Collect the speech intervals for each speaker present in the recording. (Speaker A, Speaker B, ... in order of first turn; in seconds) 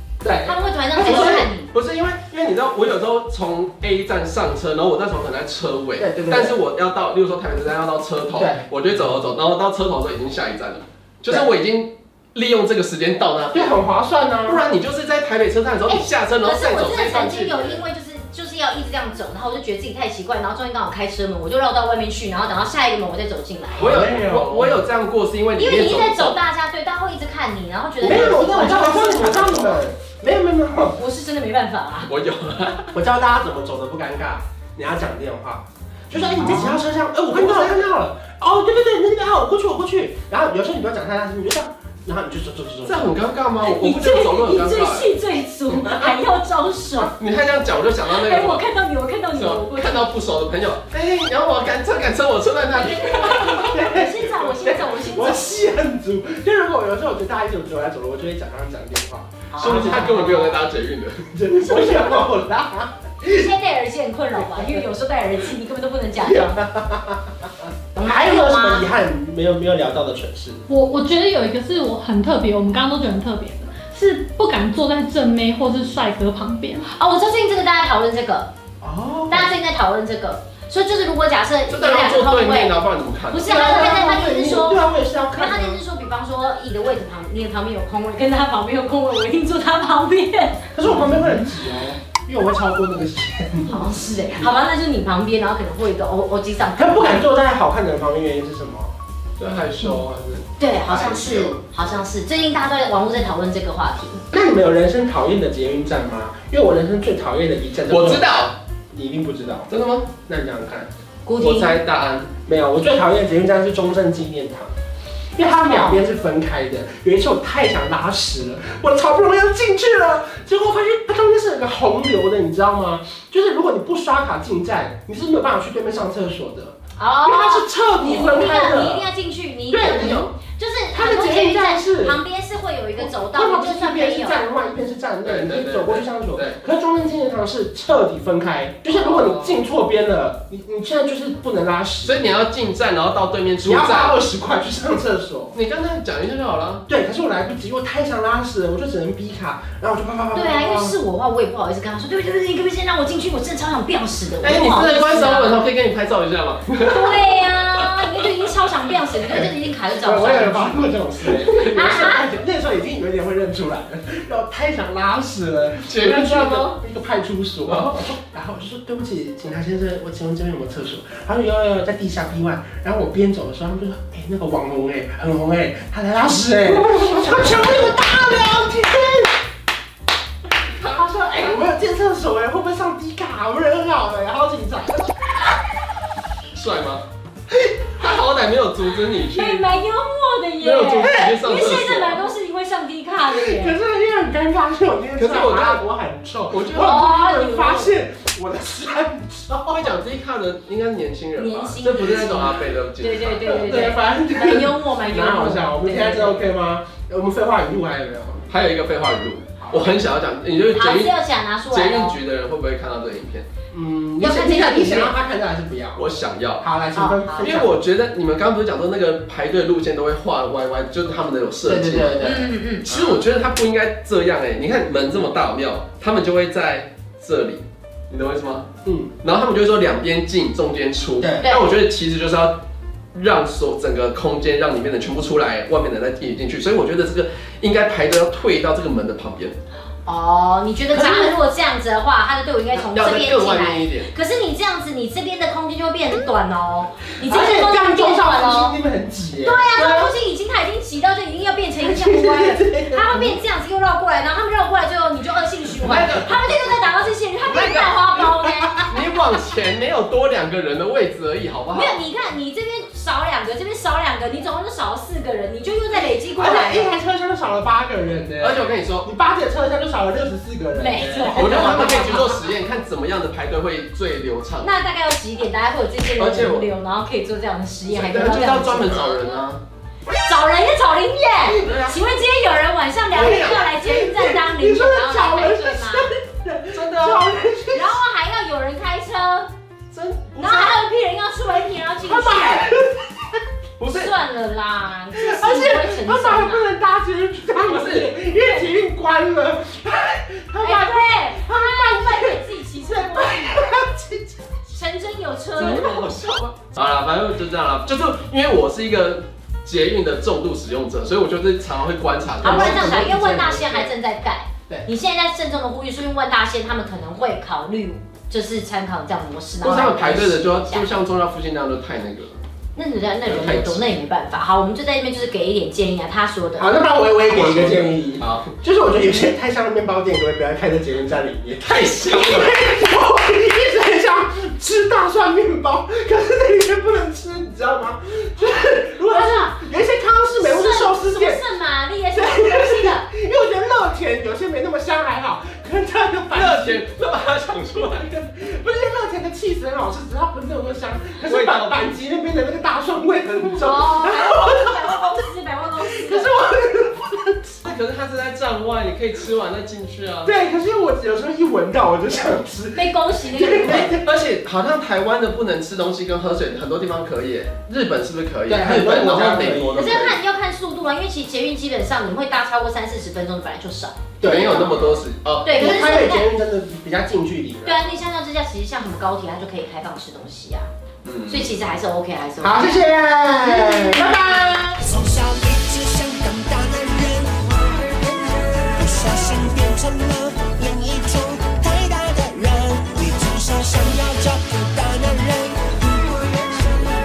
Speaker A: 0.2-2.2, 6.0-6.5, 8.3-8.6, 13.5-14.6, 23.7-24.8, 28.0-31.0, 32.9-43.2, 45.7-46.1, 53.3-60.5, 61.3-63.5, 64.3-64.8, 66.2-70.6, 78.8-79.5, 83.4-85.8, 90.7-94.5, 96.8-98.9, 104.3-109.7, 110.2-110.9, 112.4-114.7, 115.3-129.1, 129.7-130.3, 130.9-132.2, 133.0-142.2, 143.6-145.5, 146.9-150.9, 159.3-179.3, 180.9-185.2, 191.0-191.4, 193.3-200.0, 203.4-208.4, 209.6-209.9, 213.7-216.1, 216.6-217.7, 221.6-222.5, 228.8-229.1, 241.0-241.3, 247.2-250.1, 251.8-253.4, 266.3-272.4, 283.1-288.0, 292.0-293.4, 295.1-304.4, 312.4-313.9, 326.6-341.4, 342.1-346.8, 347.8-355.2, 355.8-357.6, 360.2-364.1, 368.5-370.0, 374.2-375.0, 375.5-377.8, 382.4-384.9
Speaker B: 0.4-1.7, 15.9-23.9, 25.6-29.4, 30.9-32.1, 36.3-36.8, 43.6-47.1, 48.0-50.0, 52.6-55.5, 59.5-60.5, 61.5-62.3, 63.2-66.6, 68.0-68.8, 76.8-78.5, 79.3-82.8, 83.3-90.6, 93.7-97.2, 100.6-104.2, 111.2-111.8, 115.5-116.0, 127.0-134.4, 150.3-155.6, 156.8-161.0, 161.6-162.2, 189.3-193.8, 196.7-197.9, 201.3-206.5, 210.7-212.2, 214.2-215.1, 216.9-217.6, 222.2-222.9, 231.4-231.8, 240.0-248.8, 249.4-259.0, 261.7-266.9, 270.7-272.2, 274.6-279.3, 280.2-286.1, 287.7-289.5, 290.4-292.7, 293.9-296.6, 298.3-298.8, 300.6-303.6, 304.7-306.2, 312.4-321.0, 322.7-326.8, 339.0-339.6, 340.3-343.1, 353.6-356.3, 362.7-363.9, 369.7-374.0, 375.4-376.3, 377.6-380.7, 381.3-382.8
Speaker C: 1.0-13.8, 14.4-17.8, 23.8-26.4, 28.0-29.8, 32.1-32.9, 37.3-37.9, 42.8-45.1, 47.2-48.6, 49.3-53.6, 59.5-61.3, 81.7-84.0, 99.4-101.5, 107.9-108.5, 109.7-110.1, 111.4-112.3, 129.9-130.3, 135.2-136.6, 138.9-139.6, 142.0-144.2, 145.5-146.8, 154.4-157.2, 161.4-161.7, 165.8-166.8, 167.6-168.1, 180.7-181.6, 186.5-187.0, 188.0-189.7, 190.6-192.2, 195.2-195.8, 196.5-197.0, 199.8-203.6, 208.5-211.1, 211.7-213.5, 215.9-216.6, 217.4-222.1, 222.8-228.7, 229.2-232.6, 233.1-239.6, 240.9-241.2, 242.7-244.1, 255.8-262.0, 268.4-269.1, 271.3-274.7, 276.2-276.7, 277.9-279.6, 281.6-282.2, 286.7-287.2, 289.9-290.8, 293.8-294.1, 297.6-298.1, 305.6-313.1, 319.6-322.3, 323.2-323.9, 327.3-328.5, 331.6-332.6, 346.3-348.1, 351.2-351.9, 357.6-360.3, 363.9-370.2, 374.2-375.8, 381.0-381.5
Speaker D: 70.7-76.9
Speaker E: 384.8-396.6